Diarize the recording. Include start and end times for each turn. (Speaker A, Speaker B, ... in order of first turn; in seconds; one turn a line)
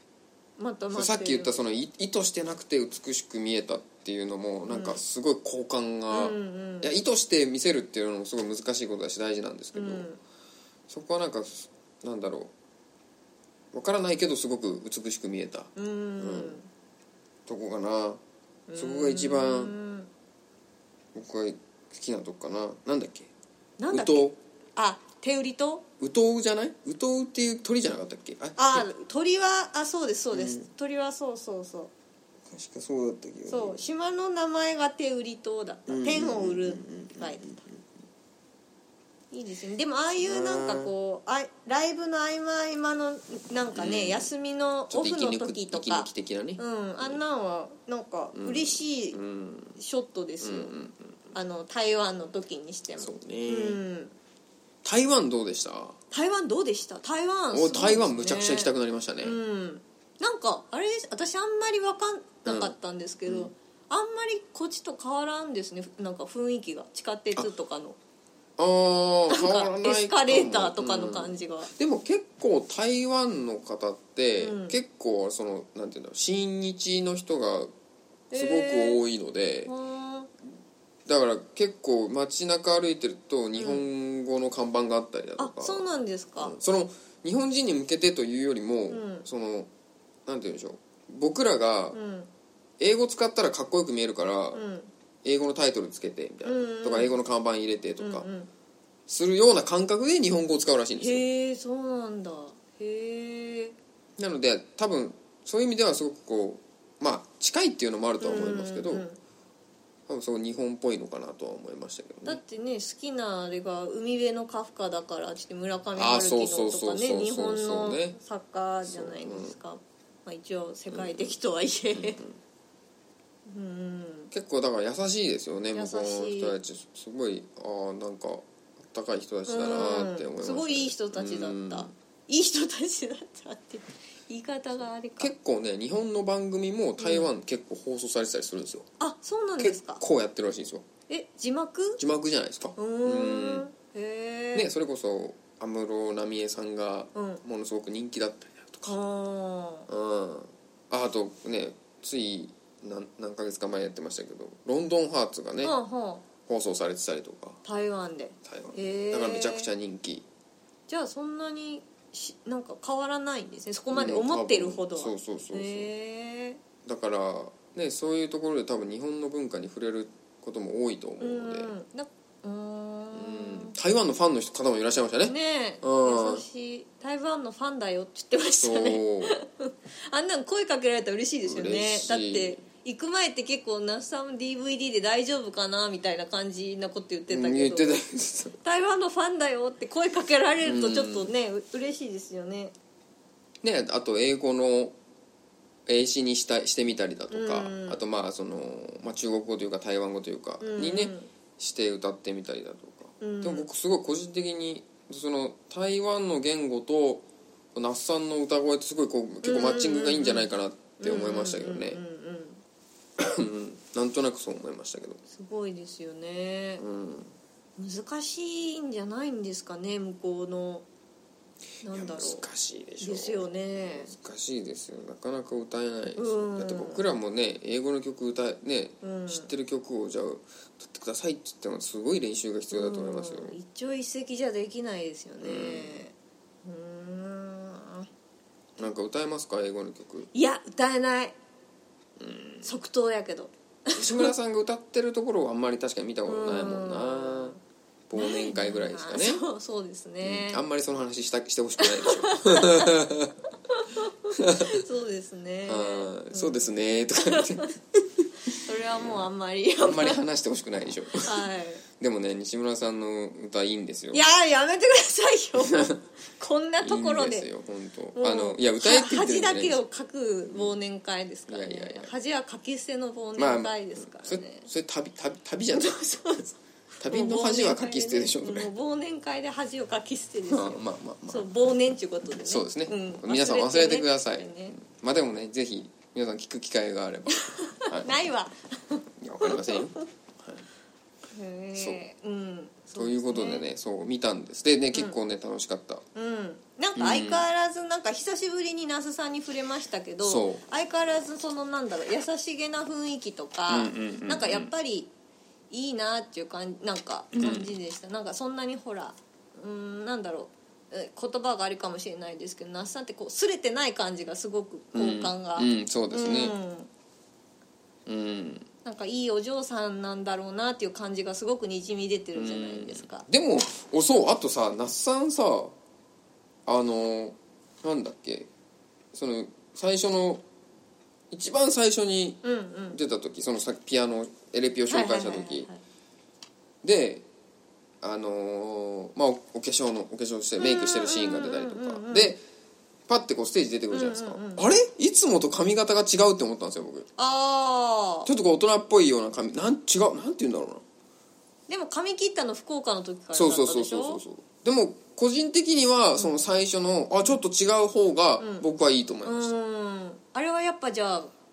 Speaker A: 0.6-1.6
Speaker B: 0.9-10.1
Speaker A: 4.7-5.0
Speaker A: 6.1-6.9
Speaker A: 9.7-10.2
Speaker B: 10.9-12.5
Speaker B: 13.7-16.6
Speaker A: 15.8-16.7
Speaker B: 17.5-18.2
Speaker A: 18.7-20.1
Speaker B: 18.8-19.7
Speaker B: 21.1-23.3
Speaker A: 23.8-25.9
Speaker B: 23.9-24.4
Speaker B: 26.0-28.9
Speaker A: 28.6-31.9
Speaker B: 30.3-30.7
Speaker B: 32.5-33.8
Speaker A: 33.5-37.5
Speaker B: 35.9-37.8
Speaker A: 39.3-49.2
Speaker B: 40.2-40.9
Speaker B: 43.7-44.3
Speaker B: 44.9-47.2
Speaker B: 48.3-49.8
Speaker A: 49.8-50.7
Speaker B: 50.4-51.4
Speaker A: 51.3-54.1
Speaker B: 53.0-53.8
Speaker B: 54.8-56.0
Speaker A: 56.1-68.0
Speaker B: 57.5-59.4
Speaker B: 62.5-62.7
Speaker B: 63.3-63.5
Speaker B: 68.6-77.7
Speaker A: 69.3-71.7
Speaker A: 74.4-74.8
Speaker A: 78.3-79.0
Speaker B: 78.3-79.7
Speaker A: 79.7-80.3
Speaker B: 81.1-89.7
Speaker A: 83.6-83.8
Speaker A: 85.4-86.6
Speaker A: 88.9-89.3
Speaker B: 90.3-92.0
Speaker A: 91.9-92.3
Speaker B: 92.8-94.6
Speaker A: 94.5-94.9
Speaker B: 95.2-98.3
Speaker A: 96.4-97.2
Speaker A: 98.0-98.5
Speaker B: 99.1-101.3
Speaker A: 101.0-103.8
Speaker B: 104.2-109.1
Speaker A: 108.2-109.2
Speaker B: 110.1-112.4
Speaker A: 112.3-122.2
Speaker B: 116.0-118.2
Speaker B: 118.8-119.5
Speaker B: 120.9-121.3
Speaker B: 121.9-122.4
Speaker A: 123.5-124.3
Speaker B: 124.3-131.9
Speaker A: 125.7-126.5
Speaker A: 129.5-135.3
Speaker B: 135.2-138.9
Speaker A: 137.0-137.3
Speaker A: 139.0-140.0
Speaker B: 139.6-140.9
Speaker A: 141.1-142.0
Speaker B: 142.0-143.7
Speaker A: 142.8-144.7
Speaker B: 144.5-149.0
Speaker A: 147.2-147.4
Speaker A: 148.8-149.9
Speaker B: 149.9-155.8
Speaker A: 155.6-156.2
Speaker B: 156.4-157.6
Speaker A: 157.6-159.7
Speaker B: 158.4-160.3
Speaker A: 160.9-166.6
Speaker B: 163.9-165.9
Speaker B: 166.8-171.7
Speaker A: 171.2-173.7
Speaker B: 173.1-176.4
Speaker A: 175.2-188.0
Speaker B: 178.6-179.4
Speaker B: 181.4-182.6
Speaker B: 187.3-188.6
Speaker A: 188.6-192.7
Speaker B: 190.6-191.3
Speaker B: 193.6-194.9
Speaker B: 195.9-207.2
Speaker A: 197.3-198.0
Speaker A: 200.6-201.3
Speaker A: 203.2-203.7
Speaker B: 207.8-212.0
Speaker A: 209.4-212.6
Speaker B: 213.2-215.2
Speaker A: 215.3-216.8
Speaker B: 216.8-217.3
Speaker A: 217.8-220.8
Speaker A: 221.8-222.4
Speaker B: 221.9-233.6
Speaker A: 223.0-224.1
Speaker A: 226.2-227.1
Speaker A: 229.0-229.5
Speaker A: 232.7-238.1
Speaker B: 235.4-236.0
Speaker B: 238.8-240.3
Speaker A: 240.3-241.4
Speaker B: 242.2-242.7
Speaker A: 242.6-244.3
Speaker B: 243.9-247.6
Speaker A: 246.2-247.6
Speaker B: 248.1-249.4
Speaker A: 248.2-250.6
Speaker B: 250.2-253.4
Speaker A: 251.8-253.0
Speaker A: 253.7-257.7
Speaker B: 254.4-254.8
Speaker B: 255.7-258.3
Speaker A: 258.5-260.2
Speaker B: 258.9-259.2
Speaker B: 259.8-261.4
Speaker A: 261.2-261.8
Speaker B: 262.0-264.2
Speaker A: 264.1-267.5
Speaker B: 265.7-265.9
Speaker B: 266.8-269.8
Speaker A: 268.2-274.7
Speaker B: 271.5-272.1
Speaker B: 273.4-276.3
Speaker A: 275.8-276.6
Speaker B: 277.0-278.7
Speaker A: 277.1-284.8
Speaker B: 280.5-281.5
Speaker B: 282.4-288.3
Speaker A: 287.4-290.0
Speaker B: 289.2-290.6
Speaker A: 291.3-293.6
Speaker B: 291.8-292.0
Speaker B: 293.0-296.1
Speaker A: 296.1-305.1
Speaker B: 296.9-297.4
Speaker B: 300.2-300.6
Speaker B: 303.7-304.7
Speaker A: 305.7-316.9
Speaker B: 307.3-307.7
Speaker B: 314.9-316.6
Speaker B: 318.1-318.7
Speaker A: 318.9-323.3
Speaker B: 322.4-325.8
Speaker B: 326.7-328.5
Speaker B: 329.1-330.4
Speaker B: 331.3-332.4
Speaker A: 332.4-333.0
Speaker B: 332.9-335.7
Speaker A: 334.9-335.8
Speaker B: 336.8-337.2
Speaker B: 338.0-342.4
Speaker A: 340.6-342.3
Speaker B: 343.1-347.1
Speaker A: 343.9-344.7
Speaker A: 347.2-348.3
Speaker B: 348.3-350.8
Speaker A: 351.7-354.2
Speaker B: 353.3-359.5
Speaker A: 358.4-358.6
Speaker A: 359.2-361.3